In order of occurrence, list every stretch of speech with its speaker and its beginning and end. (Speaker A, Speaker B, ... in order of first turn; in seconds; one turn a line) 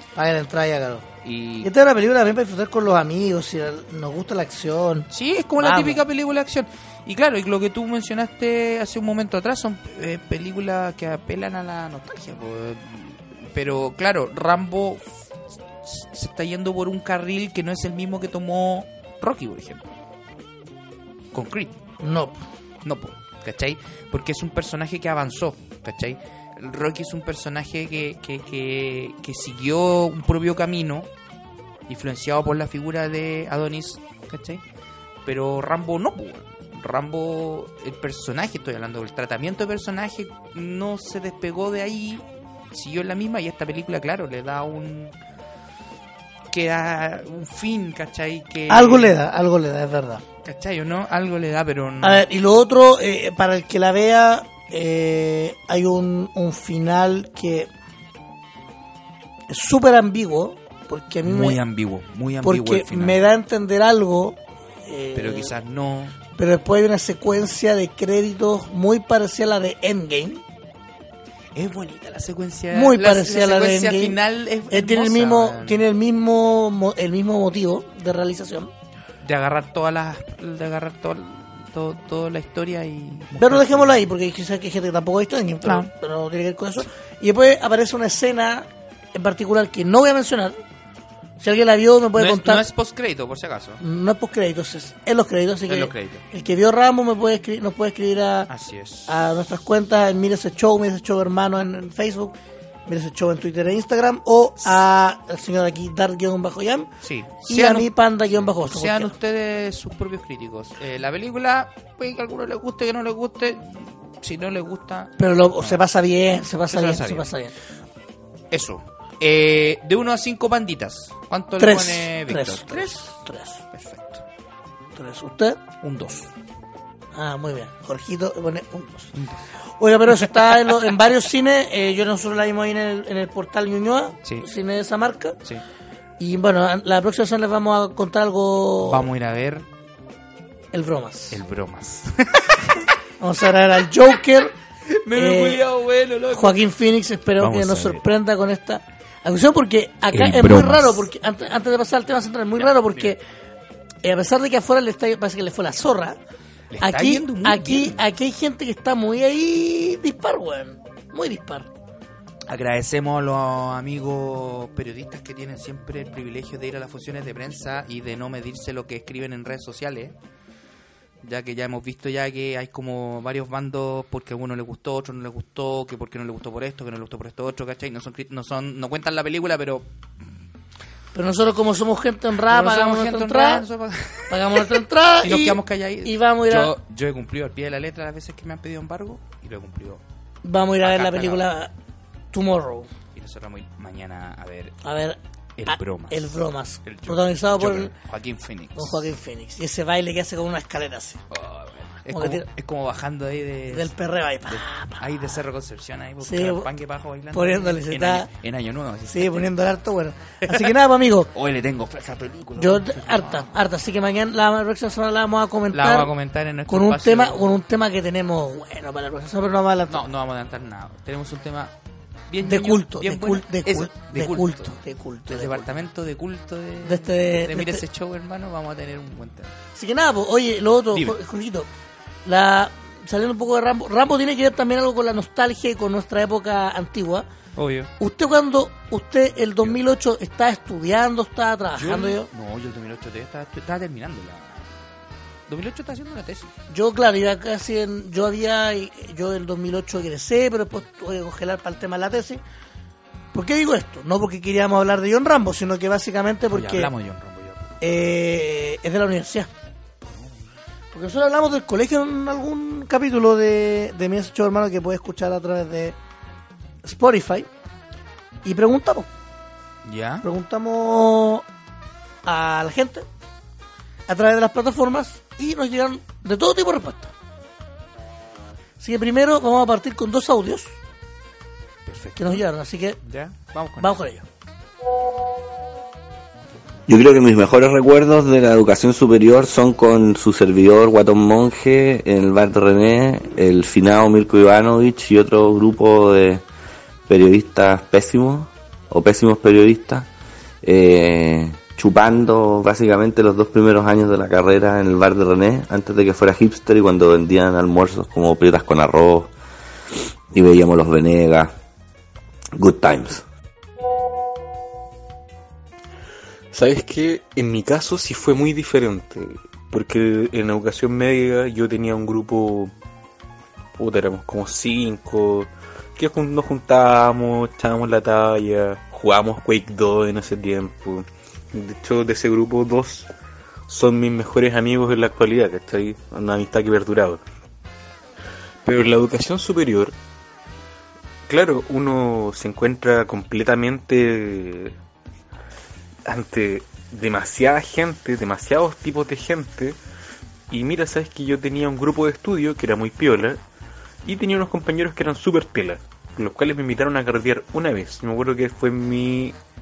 Speaker A: 0.2-1.1
Speaker B: 1.2-1.7
Speaker A: 1.6-5.1
Speaker B: 5.1-15.1
Speaker A: 5.6-6.0
Speaker B: 15.8-19.9
Speaker B: 21.3-21.8
Speaker A: 22.0-22.4
Speaker B: 22.8-31.1
Speaker B: 31.9-34.6
Speaker B: 35.2-45.2
Speaker B: 46.5-49.2
Speaker A: 48.7-50.2
Speaker B: 50.4-52.2
Speaker A: 52.0-57.7
Speaker A: 59.5-61.6
Speaker B: 61.2-63.2
Speaker A: 62.4-65.5
Speaker B: 65.2-66.2
Speaker A: 66.4-70.4
Speaker B: 71.5-75.8
Speaker A: 72.7-74.2
Speaker A: 74.7-78.7
Speaker B: 79.2-84.1
Speaker A: 83.4-90.6
Speaker B: 85.6-85.9
Speaker A: 91.4-92.6
Speaker B: 92.2-93.8
Speaker A: 93.8-98.5
Speaker B: 95.7-96.3
Speaker B: 98.5-99.1
Speaker A: 99.1-102.3
Speaker A: 102.9-106.9
Speaker B: 107.0-115.8
Speaker A: 107.5-109.1
Speaker A: 115.2-117.5
Speaker B: 116.7-117.3
Speaker B: 118.5-124.2
Speaker A: 121.6-123.6
Speaker A: 125.0-125.6
Speaker B: 125.8-126.3
Speaker A: 127.1-129.1
Speaker B: 129.1-129.4
Speaker A: 129.8-135.4
Speaker B: 130.2-130.8
Speaker A: 136.2-139.1
Speaker B: 138.8-139.7
Speaker A: 140.7-141.4
Speaker B: 141.3-142.9
Speaker A: 143.2-144.6
Speaker B: 144.9-146.7
Speaker A: 145.1-145.6
Speaker A: 146.3-153.2
Speaker B: 147.4-148.0
Speaker B: 150.1-151.1
Speaker B: 152.6-153.2
Speaker A: 154.0-156.2
Speaker B: 156.7-158.0
Speaker A: 156.8-161.7
Speaker B: 162.5-170.2
Speaker B: 171.2-179.9
Speaker A: 181.2-183.7
Speaker B: 182.4-190.0
Speaker A: 184.3-186.8
Speaker A: 190.4-191.7
Speaker B: 190.8-191.5
Speaker A: 192.3-192.9
Speaker B: 193.1-194.8
Speaker A: 194.8-197.9
Speaker B: 195.6-199.1
Speaker A: 198.8-201.2
Speaker B: 201.3-203.9
Speaker A: 202.1-202.5
Speaker A: 203.7-205.0
Speaker B: 204.5-209.4
Speaker A: 206.2-206.7
Speaker A: 207.3-208.3
Speaker A: 209.1-211.3
Speaker B: 210.4-210.8
Speaker B: 211.3-213.5
Speaker A: 212.6-216.1
Speaker B: 215.7-217.5
Speaker A: 216.7-220.1
Speaker B: 219.9-221.7
Speaker B: 222.3-224.8
Speaker A: 222.4-225.8
Speaker B: 225.3-229.6
Speaker A: 226.8-227.8
Speaker A: 229.8-231.7
Speaker B: 230.9-231.2
Speaker A: 232.2-237.3
Speaker B: 237.6-237.9
Speaker A: 238.0-242.3
Speaker B: 241.8-244.7
Speaker B: 245.5-246.5
Speaker A: 246.7-252.4
Speaker A: 253.3-256.9
Speaker B: 256.5-257.8
Speaker A: 257.8-259.5
Speaker B: 260.1-260.4
Speaker A: 260.9-265.9
Speaker A: 266.8-267.5
Speaker A: 268.4-269.1
Speaker B: 269.8-270.3
Speaker A: 270.2-271.4
Speaker A: 272.2-273.1
Speaker A: 274.1-277.1
Speaker A: 278.8-280.7
Speaker B: 281.9-282.5
Speaker A: 282.2-283.0
Speaker B: 283.0-284.0
Speaker A: 283.8-284.3
Speaker C: 286.9-296.4
Speaker C: 297.1-300.1
Speaker C: 300.6-309.3
Speaker C: 310.3-311.5
Speaker C: 312.6-313.2
Speaker D: 316.5-322.7
Speaker D: 323.8-333.1
Speaker D: 333.7-337.2
Speaker D: 338.6-339.9
Speaker D: 341.3-344.8
Speaker D: 346.1-349.8
Speaker D: 350.5-353.4
Speaker D: 354.1-359.4